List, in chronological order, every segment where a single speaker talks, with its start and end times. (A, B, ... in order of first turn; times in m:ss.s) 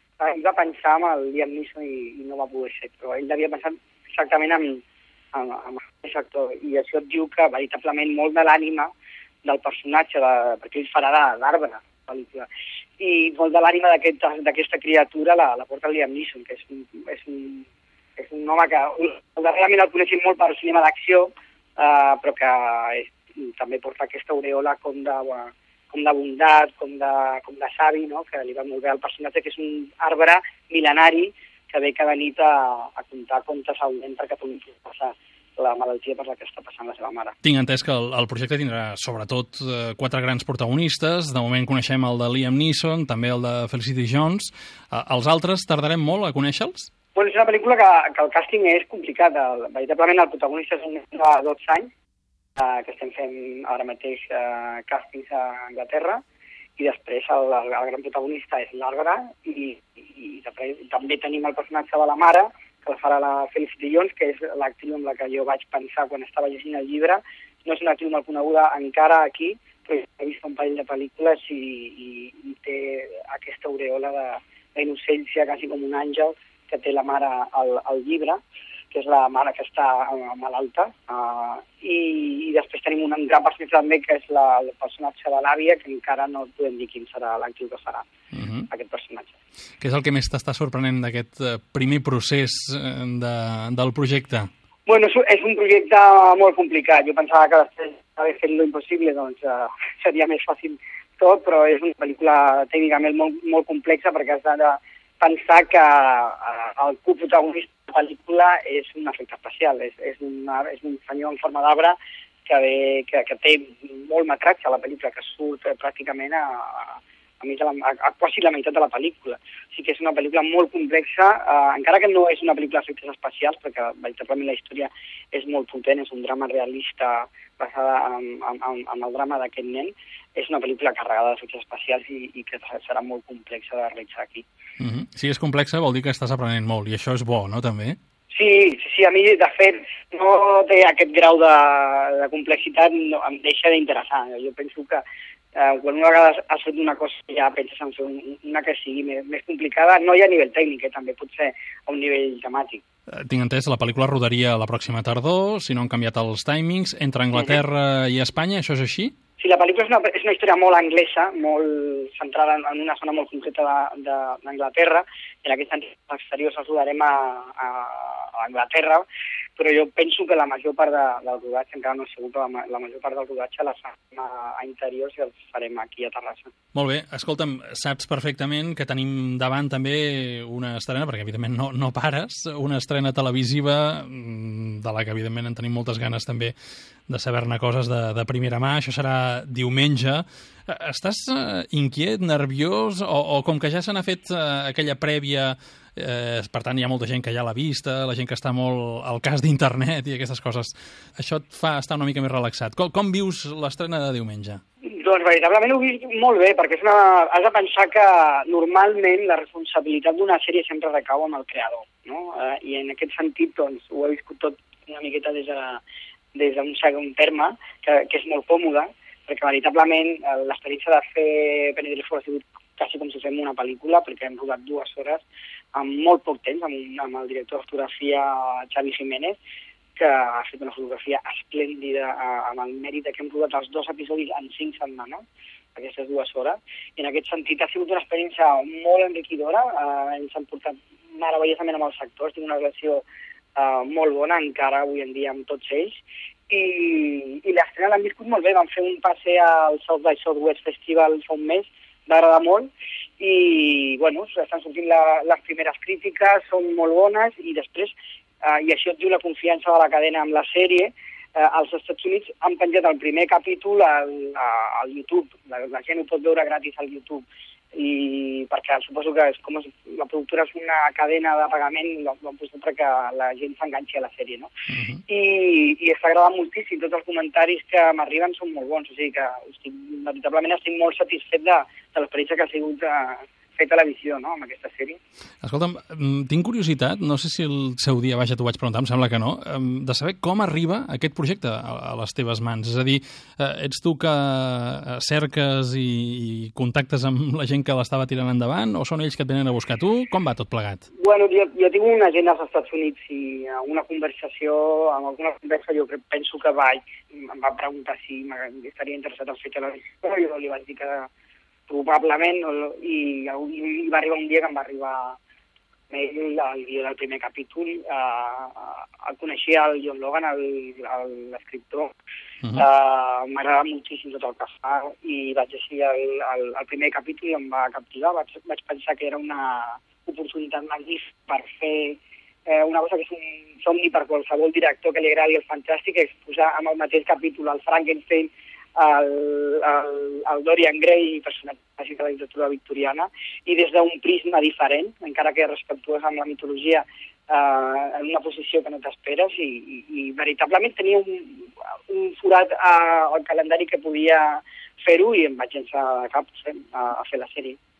0:00.2-0:04.8 A
0:05.3-0:08.9 A
0:09.4-0:17.6 A
0:18.2-0:37.3 A
0:37.4-0:46.9 B
0:47.1-0:51.9 A
0:52.6-0:56.2 A
0:56.8-1:18.4 A
1:18.9-1:28.0 A
1:28.3-1:28.7 B
1:28.7-1:29.4 A
1:29.8-1:34.5 B
1:34.9-1:52.0 A
1:52.5-2:14.4 A
2:14.8-2:18.0 B
2:18.3-2:25.0 A
2:25.5-2:32.8 A
2:33.1-2:39.1 B
2:39.4-2:56.5 A
2:56.7-3:06.5 B
3:07.1-3:24.6 B
3:24.8-3:35.8 A
3:36.3-3:49.4 A
3:50.0-3:55.2 A
3:55.7-4:34.5 A
4:34.7-4:35.0 B
4:35.1-4:45.0 A
4:45.4-5:00.8 B
5:01.0-5:11.1 A
5:11.7-5:15.2 A
5:15.9-5:22.0 A
5:22.5-5:57.6 A